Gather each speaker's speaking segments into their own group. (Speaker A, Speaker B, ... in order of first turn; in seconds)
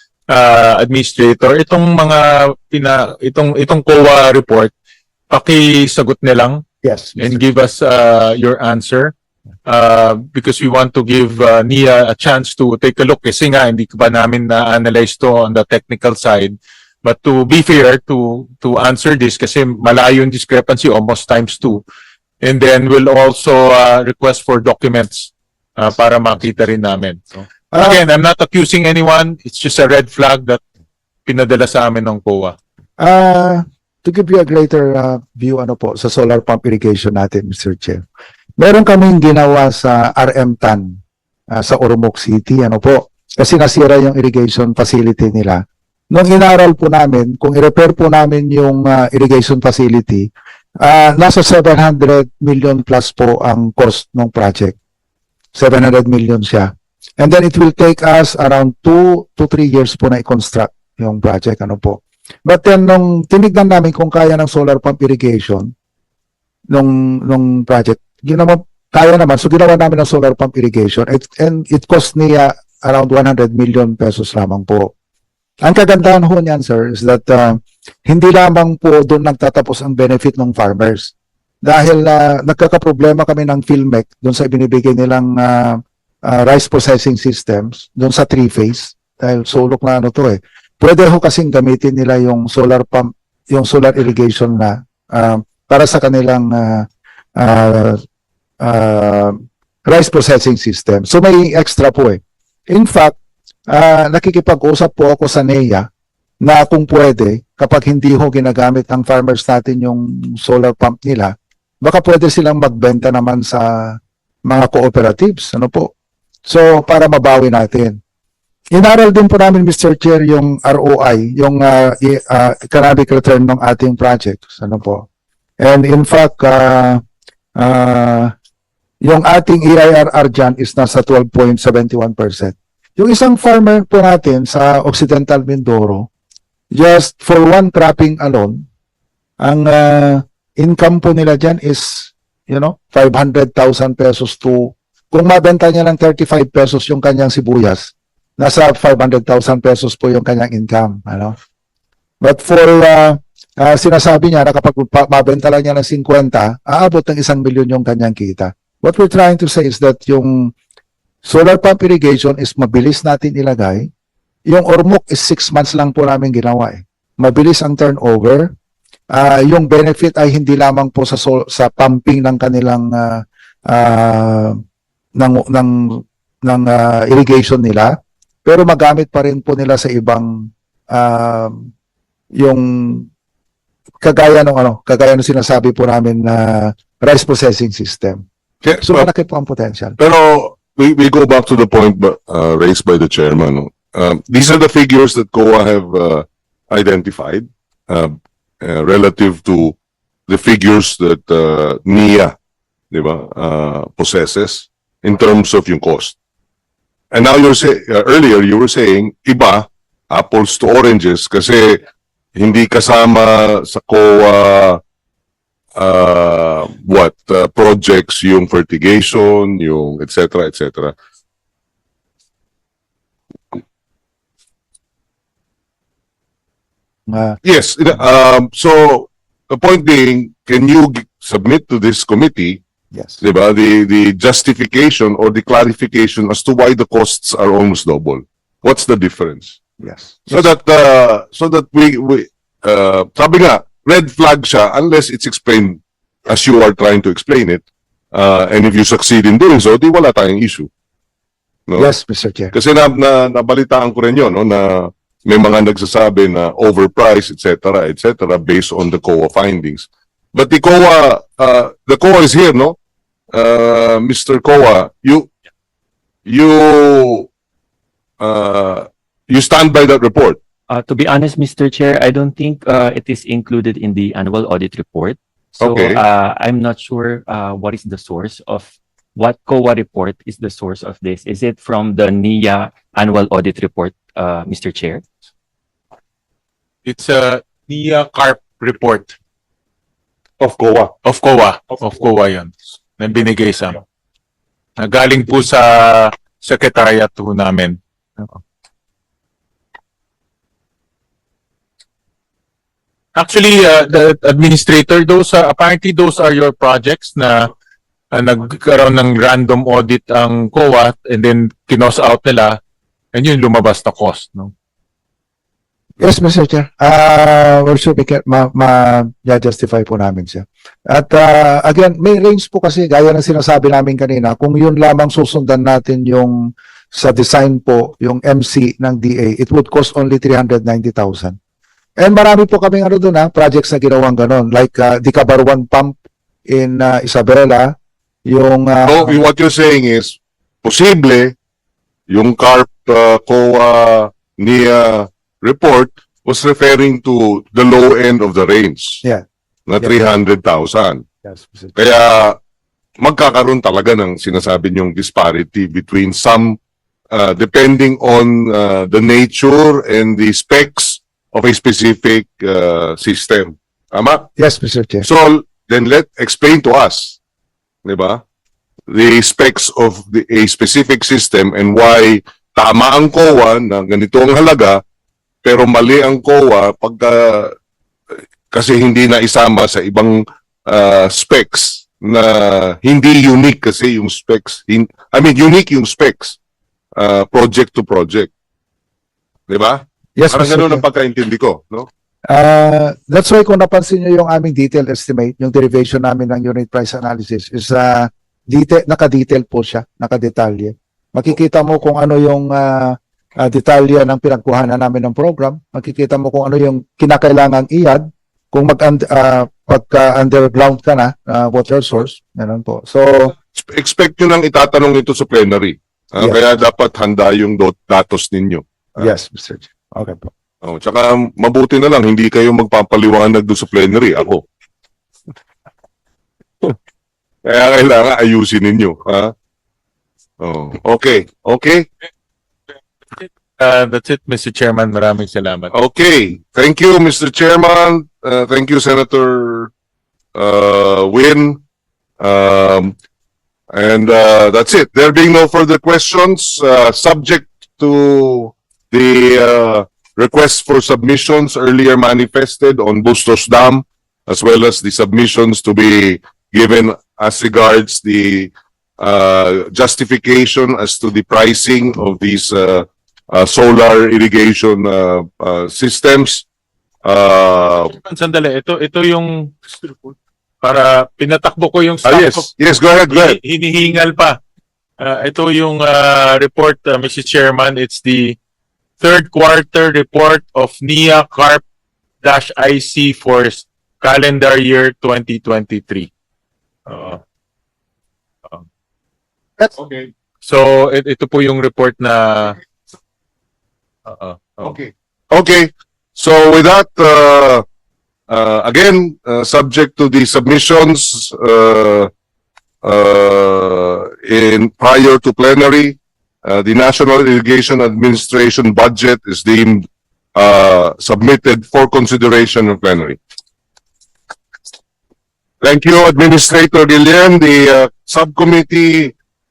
Speaker A: 0.3-4.7, 5.3-6.6, 7.2-9.1, 9.7-21.8, 22.4-30.6, 31.2-32.5, 286.8-289.1, 291.0-293.8, 294.8-298.3, 303.1-307.5, 308.1-312.6, 313.1-314.5, 433.2-435.7, 467.9-472.5, 473.1-474.4, 475.0-478.4, 479.0-481.6, 482.2-486.1, 486.9-487.2, 490.4-492.6, 494.1-494.7
Speaker B: 6.8-7.4, 27.7-28.0, 33.0-38.0, 38.6-41.0, 41.5-54.8, 55.5-65.7, 66.7-74.9, 75.6-98.0, 98.6-103.2, 103.7-105.8, 106.4-115.9, 116.5-118.0, 118.7-125.0, 125.6-127.0, 127.5-128.3, 129.0-136.1, 136.7-138.6, 139.4-151.3, 152.2-160.5, 161.2-163.9, 164.5-168.5, 169.1-174.6, 175.2-177.9, 178.4-181.7, 182.3-183.1, 184.0-188.2, 188.8-190.0, 227.1-227.4, 239.8-240.5, 251.8-252.5, 316.0-326.4, 326.9-331.4, 332.0-335.9, 336.5-337.7, 338.2-339.2, 351.2-351.7, 364.4-365.1, 390.2-390.8, 392.3-413.3, 416.2-416.4, 419.0-420.3
Speaker C: 188.6-189.1, 190.0-199.7, 200.3-202.3, 202.9-206.1, 207.1-211.8, 212.3-214.8, 215.8-220.9, 227.4-232.6, 233.2-239.6, 240.3-250.7, 251.7-251.9, 252.5-262.8, 263.3-265.3, 266.2-267.3, 268.2-270.4, 275.6-276.0, 338.9-341.3, 342.1-349.0, 349.7-351.0, 351.7-352.4, 353.0-356.6, 357.1-364.3, 365.0-367.2, 367.8-368.2, 368.9-374.8, 375.4-377.5, 378.5-386.4, 387.0-388.3, 389.5-391.9, 413.5-419.1, 420.6-424.4, 427.4-429.3, 430.4-431.9, 435.7-439.7, 440.3-441.6, 442.2-442.9, 443.7-466.4, 467.0-467.9, 472.0-473.4, 489.8-490.1, 494.6-497.6, 498.3-502.1, 502.8-513.2, 515.6-519.1
Speaker D: 270.7-285.0